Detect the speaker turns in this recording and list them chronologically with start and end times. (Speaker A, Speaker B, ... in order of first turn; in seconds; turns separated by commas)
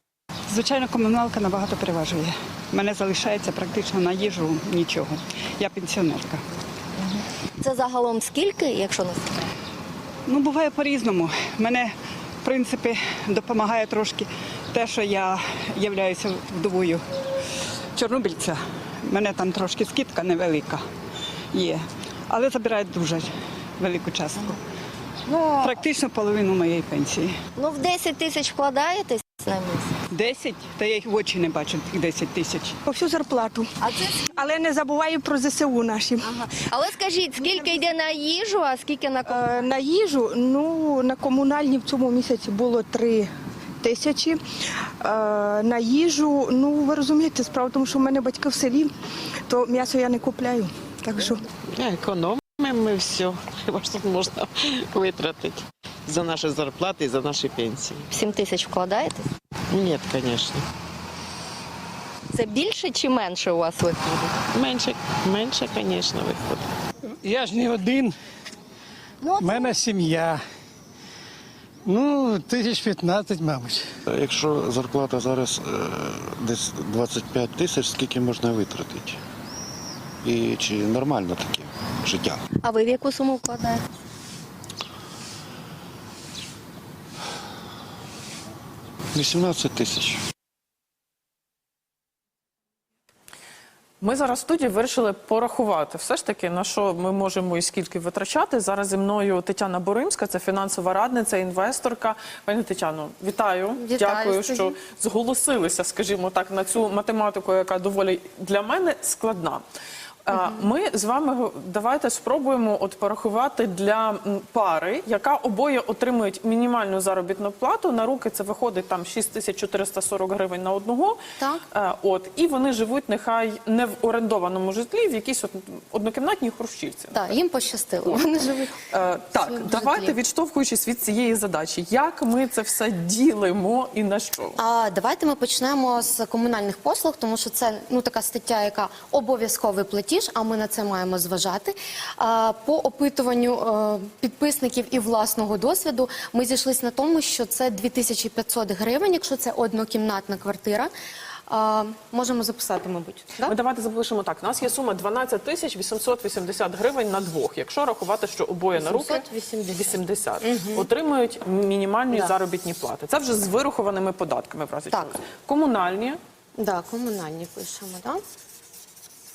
Speaker A: 0.5-6.4, Speaker B: 7.6-9.5, Speaker A: 10.3-17.0, Speaker A: 17.9-20.8, Speaker A: 21.5-24.6, Speaker A: 25.6-27.4, Speaker B: 27.6-29.9, Speaker A: 30.1-32.8, Speaker C: 32.8-33.7, Speaker C: 34.3-36.3, Speaker B: 36.6-39.7, Speaker C: 39.3-44.4, Speaker C: 45.0-48.9, Speaker C: 49.5-51.4, Speaker D: 51.7-58.1, Speaker B: 58.1-59.3, Speaker D: 59.7-60.6, Speaker B: 62.3-64.3, Speaker D: 64.5-66.6, Speaker E: 67.2-68.2, Speaker E: 69.4-70.4, Speaker E: 71.8-73.9, Speaker F: 74.1-79.2, Speaker F: 80.2-82.4, Speaker B: 82.6-83.8, Speaker F: 89.1-90.2, Speaker G: 94.0-109.6, Speaker H: 103.8-104.8, Speaker G: 110.2-121.2, Speaker H: 121.4-121.6, Speaker G: 121.7-127.3, Speaker H: 127.1-130.2, Speaker G: 128.9-134.6, Speaker H: 134.6-150.9, Speaker H: 151.5-153.5, Speaker G: 153.4-159.2, Speaker H: 158.8-160.9, Speaker G: 159.8-166.2, Speaker H: 166.6-168.2